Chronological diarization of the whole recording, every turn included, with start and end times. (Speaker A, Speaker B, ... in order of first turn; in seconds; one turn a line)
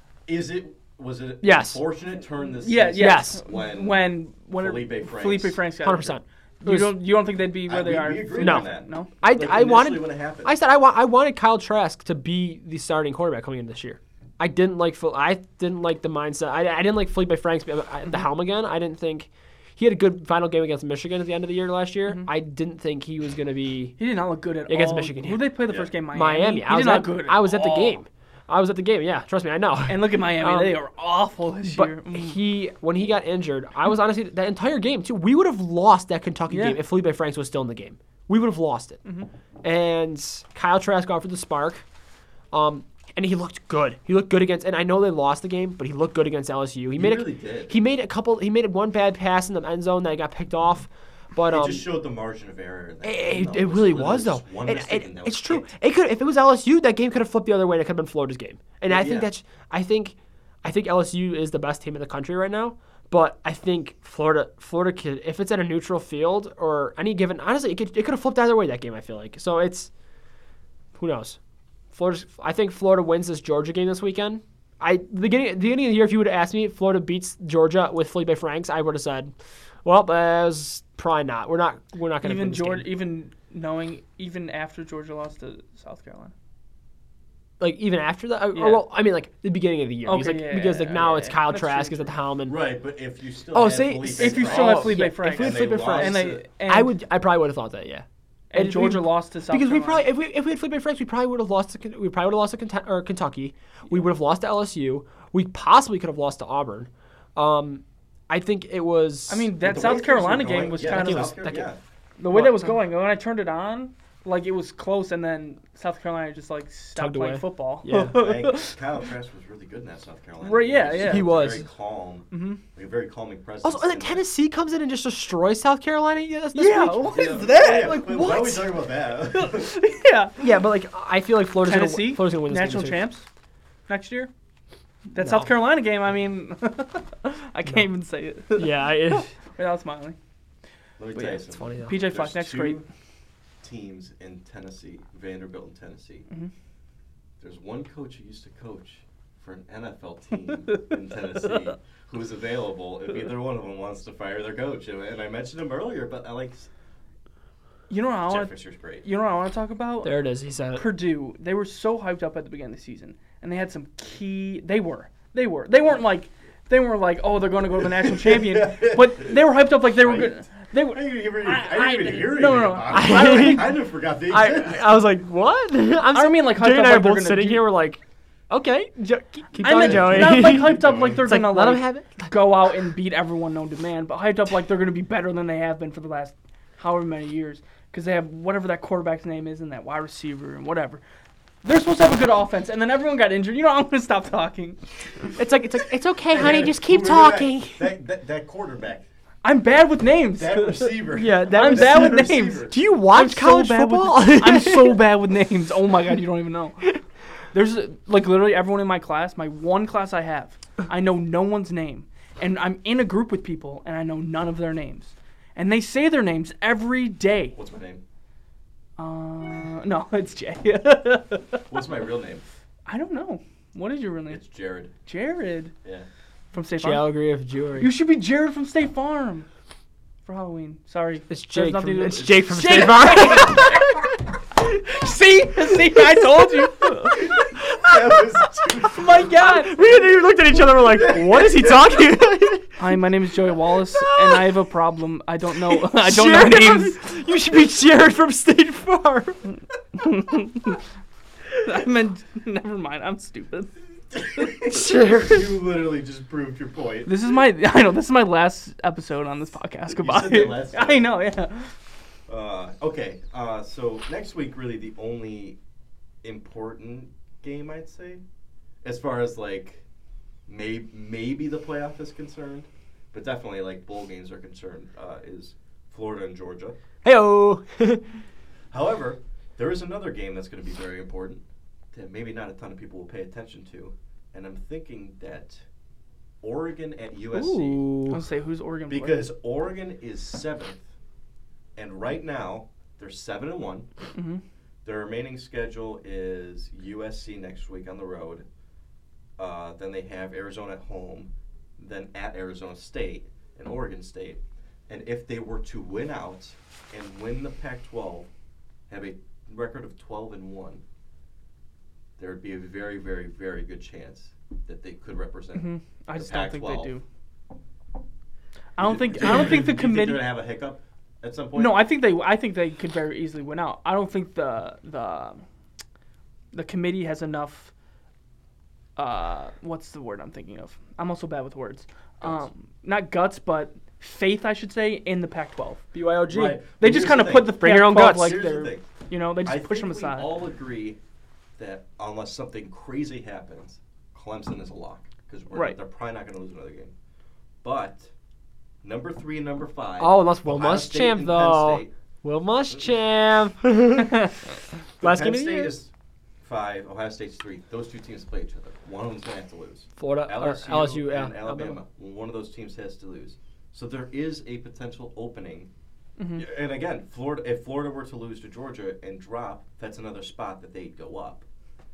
Speaker A: 0.3-5.6
Speaker B: 1.4-1.8
Speaker C: 2.6-9.1
Speaker B: 3.0-3.4
Speaker B: 5.8-7.0
Speaker A: 7.7-10.5
Speaker B: 8.4-24.0
Speaker C: 24.0-28.0
Speaker B: 24.7-25.5
Speaker B: 26.1-30.8
Speaker C: 29.9-32.4
Speaker B: 31.7-39.0
Speaker C: 36.5-36.8
Speaker B: 39.6-41.9
Speaker B: 42.5-51.9
Speaker A: 47.0-47.8
Speaker A: 51.5-55.7
Speaker B: 53.0-69.9
Speaker A: 58.9-59.3
Speaker B: 71.0-71.4
Speaker B: 71.9-79.3
Speaker B: 79.8-82.9
Speaker C: 82.2-86.3
Speaker B: 87.6-92.6
Speaker C: 88.5-88.8
Speaker C: 90.1-92.1
Speaker A: 92.5-96.4
Speaker B: 93.5-109.5
Speaker C: 94.1-96.9
Speaker C: 98.5-100.1
Speaker C: 109.3-111.4
Speaker A: 109.6-111.8
Speaker B: 110.8-111.7
Speaker C: 112.2-118.8
Speaker B: 112.3-112.7
Speaker B: 117.0-118.2
Speaker A: 118.0-124.2
Speaker C: 120.4-121.3
Speaker B: 121.0-121.7
Speaker C: 122.3-122.6
Speaker B: 123.6-128.6
Speaker C: 126.5-128.7
Speaker A: 127.1-129.8
Speaker C: 129.3-130.4
Speaker B: 130.4-133.1
Speaker C: 131.6-133.3
Speaker C: 133.9-134.3
Speaker C: 135.1-140.2
Speaker B: 135.2-135.5
Speaker B: 138.6-139.3
Speaker A: 141.0-142.8
Speaker C: 141.2-142.8
Speaker B: 141.5-142.0
Speaker A: 143.6-146.3
Speaker A: 147.4-156.7
Speaker C: 157.9-160.2
Speaker A: 158.3-159.1
Speaker B: 160.0-160.9
Speaker C: 160.8-173.7
Speaker A: 167.8-174.9
Speaker B: 172.9-173.7
Speaker B: 174.3-182.6
Speaker C: 176.1-177.7
Speaker C: 179.6-191.0
Speaker A: 179.7-181.2
Speaker C: 191.6-194.8
Speaker B: 195.4-197.9
Speaker A: 196.3-199.1
Speaker C: 199.4-206.9
Speaker A: 200.4-202.8
Speaker B: 201.1-205.0
Speaker C: 207.5-217.6
Speaker A: 217.6-218.0
Speaker C: 219.0-221.7
Speaker A: 221.7-222.4
Speaker C: 222.9-224.4
Speaker A: 224.3-224.9
Speaker C: 225.1-225.7
Speaker C: 226.5-227.1
Speaker B: 226.8-227.9
Speaker C: 227.8-229.5
Speaker C: 230.3-237.4
Speaker B: 231.3-233.9
Speaker A: 237.2-239.3
Speaker B: 237.2-242.8
Speaker C: 238.8-239.8
Speaker A: 241.0-241.8
Speaker C: 242.8-247.0
Speaker B: 243.9-244.5
Speaker B: 245.7-249.4
Speaker C: 250.0-250.8
Speaker C: 251.6-253.7
Speaker A: 254.1-257.1
Speaker B: 254.7-255.4
Speaker C: 257.1-261.7
Speaker A: 259.9-261.1
Speaker A: 262.3-265.6
Speaker A: 266.2-268.2
Speaker A: 268.8-269.8
Speaker A: 270.5-276.8
Speaker B: 277.0-278.0
Speaker A: 278.7-285.6
Speaker A: 286.4-287.9
Speaker B: 287.3-288.2
Speaker C: 288.1-289.3
Speaker A: 288.9-290.8
Speaker A: 291.8-293.9
Speaker C: 294.1-294.4
Speaker A: 294.9-298.4
Speaker A: 299.4-308.3
Speaker A: 308.9-310.8
Speaker A: 312.2-316.9
Speaker C: 315.6-317.0
Speaker C: 318.8-320.3
Speaker A: 318.8-321.9
Speaker C: 321.5-325.4
Speaker C: 326.5-327.7
Speaker C: 329.0-340.3
Speaker B: 335.9-336.6
Speaker A: 336.3-338.9
Speaker B: 337.6-338.4
Speaker A: 339.4-341.0
Speaker A: 341.6-346.9
Speaker C: 345.5-345.8
Speaker A: 347.6-348.1
Speaker A: 348.8-351.9
Speaker B: 350.0-354.4
Speaker B: 355.0-355.8
Speaker A: 355.0-355.9
Speaker A: 356.4-365.7
Speaker B: 360.0-361.8
Speaker C: 366.2-366.5
Speaker A: 366.4-371.4